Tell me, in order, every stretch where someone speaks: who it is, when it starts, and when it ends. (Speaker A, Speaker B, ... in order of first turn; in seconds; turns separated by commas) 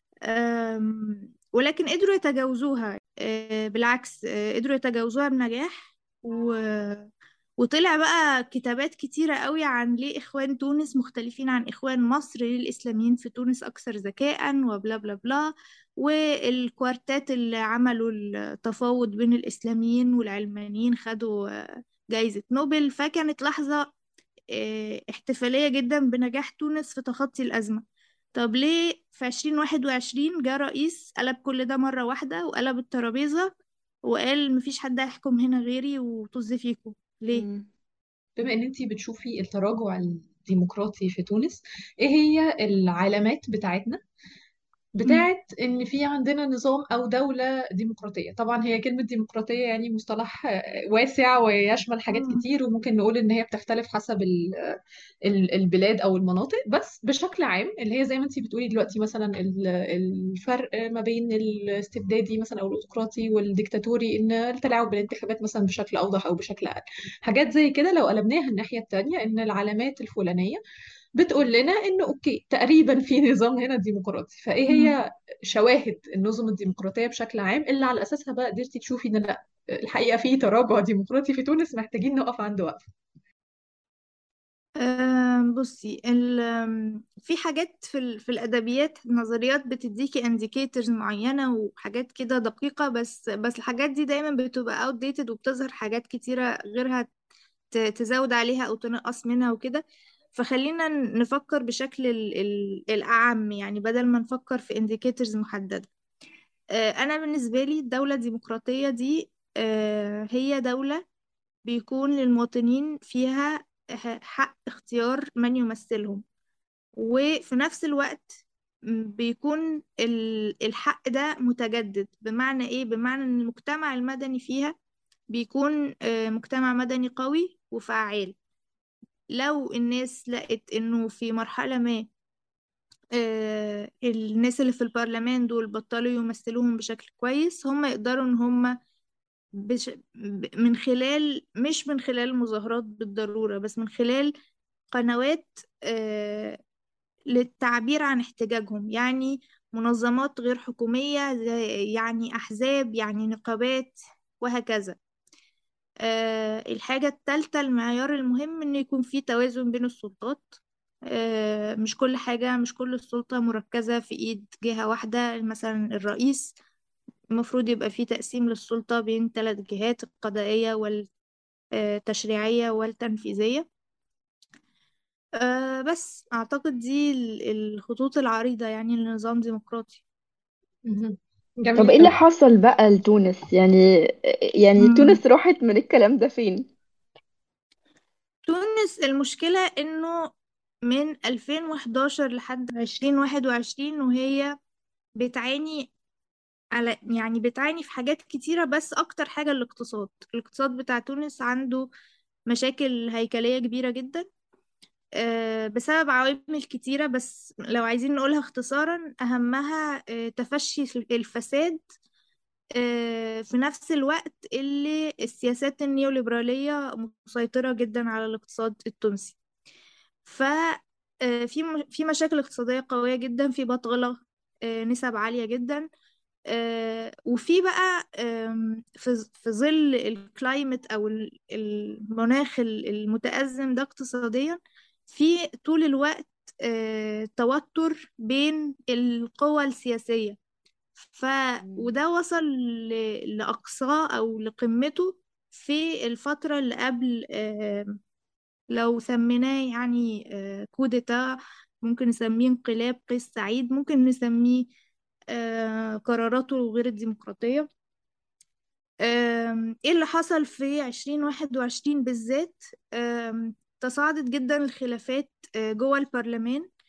Speaker A: 0.2-23.9, Speaker A: 24.5-27.8, Speaker A: 28.3-33.5, Speaker A: 34.1-37.4, Speaker B: 37.3-37.7, Speaker C: 38.4-44.0, Speaker C: 44.9-54.7, Speaker A: 52.1-52.4, Speaker C: 55.3-70.6, Speaker C: 71.2-82.8, Speaker A: 74.7-74.9, Speaker A: 84.8-97.1, Speaker A: 97.7-99.8, Speaker A: 100.3-105.9, Speaker A: 106.8-111.0, Speaker A: 111.7-116.2, Speaker A: 117.0-118.3, Speaker A: 118.9-124.7, Speaker A: 125.3-128.3, Speaker A: 129.3-132.1, Speaker A: 133.2-138.7, Speaker A: 139.6-144.3, Speaker A: 144.9-146.6, Speaker A: 147.3-155.0, Speaker A: 156.0-160.6, Speaker A: 161.1-166.5, Speaker A: 167.3-171.1, Speaker A: 171.7-173.6, Speaker A: 175.4-180.0, Speaker C: 180.8-182.1, Speaker B: 181.8-186.7, Speaker A: 184.8-185.2, Speaker A: 188.4-190.3, Speaker A: 190.9-194.5, Speaker A: 195.2-195.9, Speaker A: 196.7-201.9, Speaker A: 202.5-204.3, Speaker A: 205.2-211.8, Speaker A: 212.8-219.3, Speaker A: 220.2-225.9, Speaker A: 226.5-240.4, Speaker A: 241.1-248.0, Speaker B: 241.6-241.9, Speaker A: 248.7-254.7, Speaker A: 255.3-257.7, Speaker A: 259.0-266.7